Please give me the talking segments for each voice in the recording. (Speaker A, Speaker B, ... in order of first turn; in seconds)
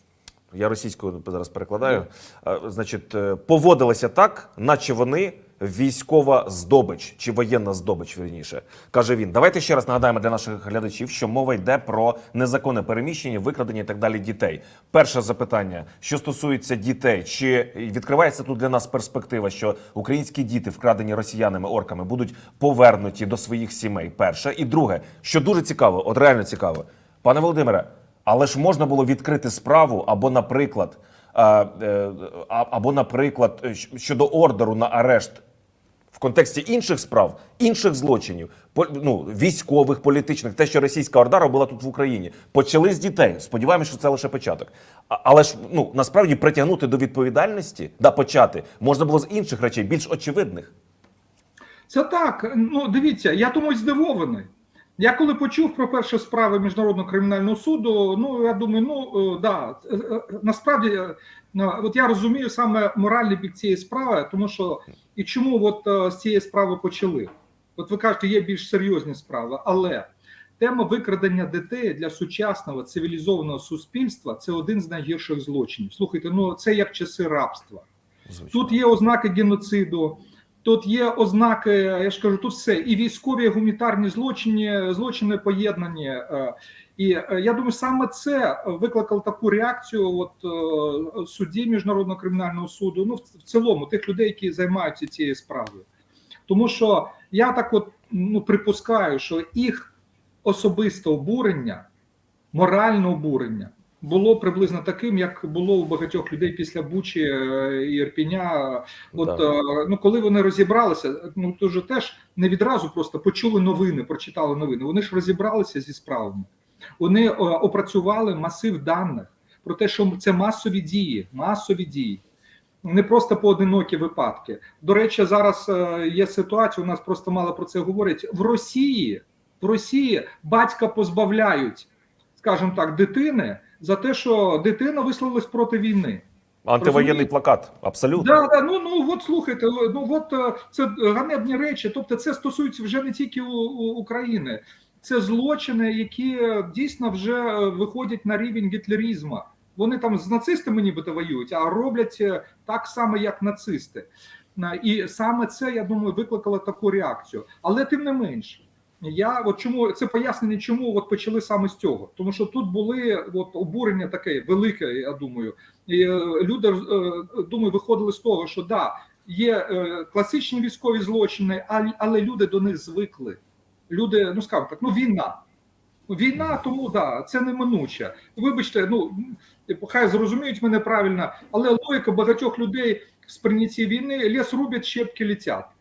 Speaker A: 0.5-35.4, 36.1-50.7, 78.3-78.8, 109.2-109.4, 136.6-138.3
Speaker B: 51.9-70.1, 70.6-77.8, 78.5-95.9, 96.5-99.9, 100.4-101.9, 102.5-116.5, 117.0-122.2, 122.8-136.2, 136.8-137.3, 138.2-175.4, 176.1-185.7